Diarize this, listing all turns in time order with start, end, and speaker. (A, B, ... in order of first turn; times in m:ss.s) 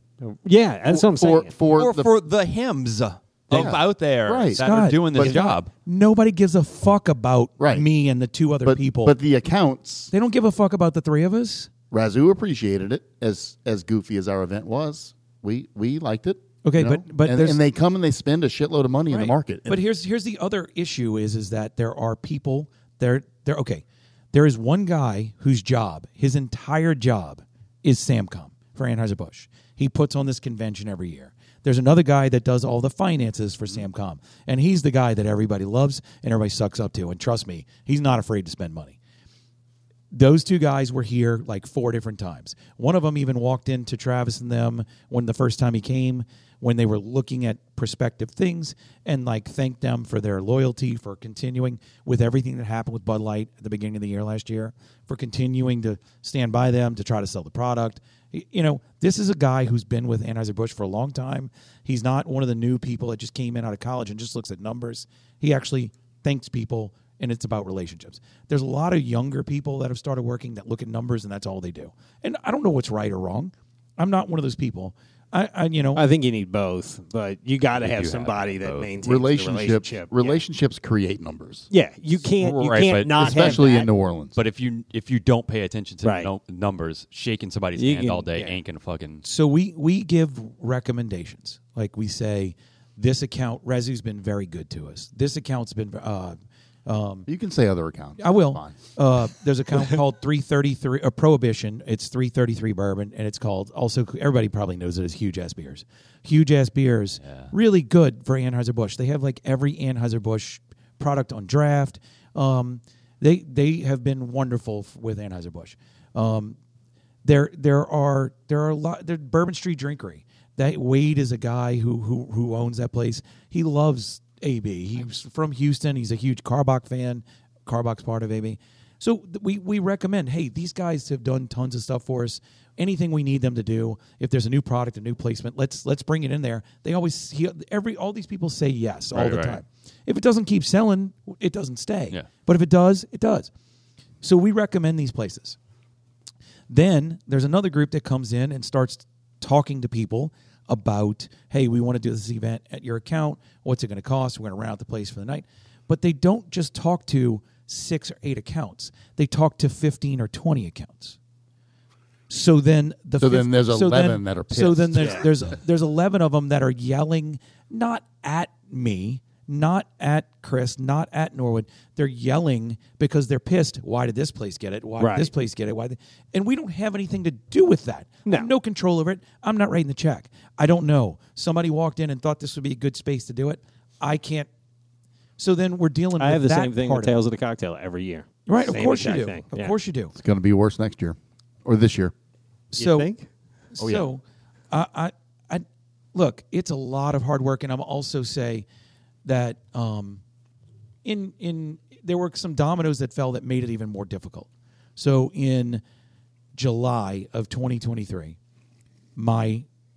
0:00.2-0:01.5 A
0:00.8-0:02.1 B
0:01.7-0:05.7 C
0:03.5-0:05.4 B
0:04.6-0:09.2 D
0:07.6-0:07.8 B
0:08.6-0:10.1 B
0:10.1-0:11.7 D
0:11.9-0:19.8 B
0:16.6-0:17.6 D
0:19.1-0:39.0 D
0:40.1-1:16.0 D
1:15.9-1:20.4 A
1:17.7-1:18.9 C
1:19.0-1:21.7 B
1:21.7-1:23.9 A
1:22.4-1:23.6 C
1:23.1-1:24.4 B
1:24.3-1:29.2 C
1:26.0-1:26.3 A
1:27.8-1:28.6 A
1:29.2-1:37.3 D
1:37.3-1:38.8 B
1:38.2-1:56.6 D
1:47.2-1:47.5 C
1:57.2-2:23.5 D
2:19.1-2:19.6 C
2:24.2-2:25.6 D
2:26.7-2:41.2 D
2:42.3-3:04.5 D
2:43.2-2:45.3 B
2:45.0-2:45.3 A
2:55.0-2:55.3 A
2:58.2-2:58.5 A
3:05.4-3:07.1 D
3:06.2-3:09.7 A
3:08.5-3:10.1 D
3:10.2-3:12.1 B
3:12.7-3:13.1 D
3:12.8-3:13.2 A
3:13.7-3:18.6 D
3:13.8-3:14.1 B
3:19.2-3:20.2 D
3:21.0-3:25.8 D
3:26.5-3:28.4 D
3:29.2-3:29.6 D